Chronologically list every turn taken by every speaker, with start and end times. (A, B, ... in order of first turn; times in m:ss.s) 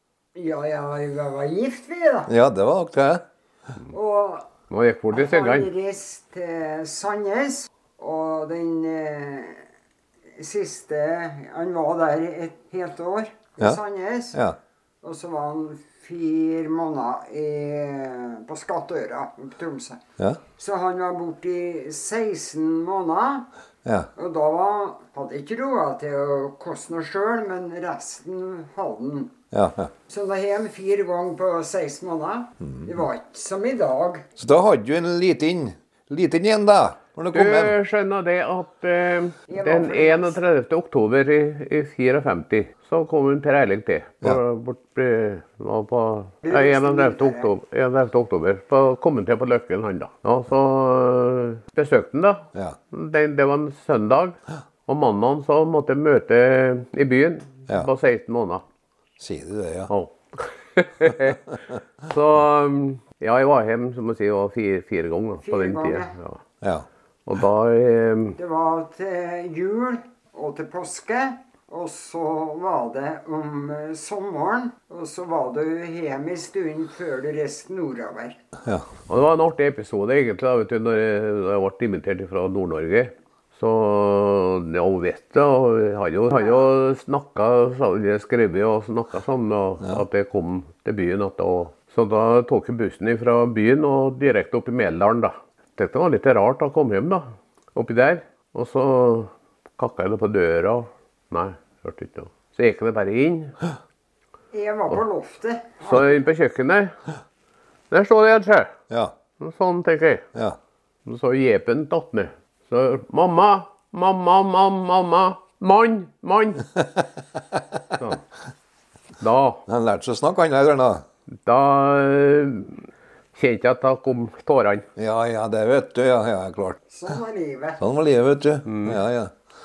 0:00.3-0:02.3 A
0:02.3-0:03.2 B
0:03.9-0:04.5 A
0:04.7-0:05.7 C
0:05.1-0:09.6 A
0:10.4-0:14.4 A
0:15.0-0:20.0 A
0:20.6-0:23.5 A
0:24.1-0:29.4 A
0:29.5-0:29.9 B
0:30.1-0:34.2 A
0:34.4-0:37.7 B
0:37.3-0:58.6 C
0:39.5-0:40.4 A
0:46.4-0:47.5 A
0:59.2-0:59.9 B
0:59.9-1:01.5 C
1:01.5-1:01.8 B
1:02.0-1:06.4 C
1:05.4-1:06.1 A
1:06.6-1:06.8 B
1:07.2-1:08.4 C
1:08.4-1:18.4 A
1:19.1-1:43.6 C
1:26.4-1:26.7 A
1:44.5-1:46.2 A
1:45.8-1:47.0 C
1:47.9-1:48.7 C
1:48.9-1:49.2 B
1:49.4-1:50.2 C
1:51.0-1:56.7 C
1:56.8-1:58.0 B
1:58.0-1:58.2 C
1:59.2-1:59.6 C
1:59.7-2:01.0 B
2:01.4-2:04.9 C
2:05.0-2:06.8 B
2:06.9-2:07.8 A
2:07.8-2:09.3 B
2:08.6-2:09.0 C